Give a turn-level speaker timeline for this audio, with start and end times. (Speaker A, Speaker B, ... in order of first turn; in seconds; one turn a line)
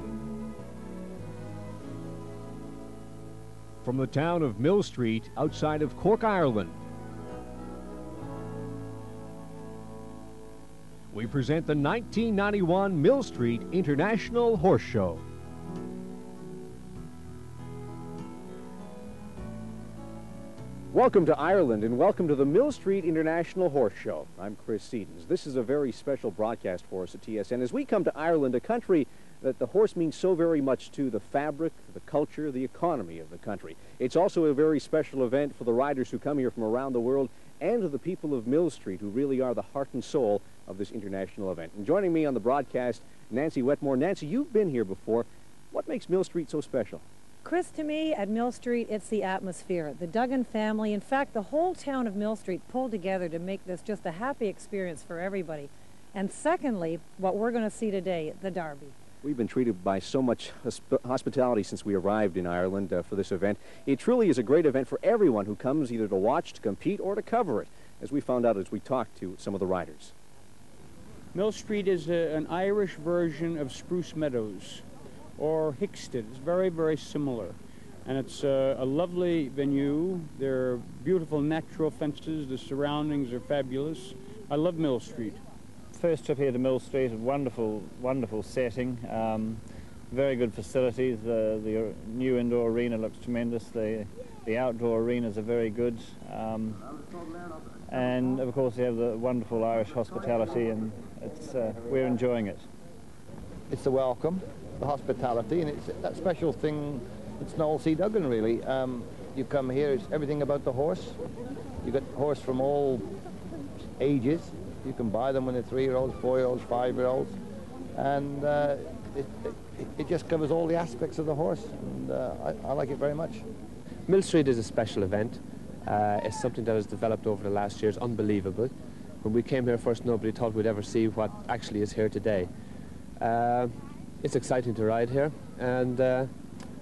Speaker A: 3.8-6.8
Speaker A: 11.1-15.2
Speaker A: 20.9-47.0
Speaker B: 47.4-58.9
Speaker A: 59.2-70.1
Speaker C: 71.3-74.8
Speaker C: 75.4-85.4
Speaker D: 85.9-96.8
Speaker D: 97.9-102.7
Speaker E: 103.7-111.2
Speaker E: 111.8-113.0
Speaker E: 114.0-117.3
Speaker E: 118.0-123.5
Speaker F: 124.0-132.5
Speaker F: 133.2-136.3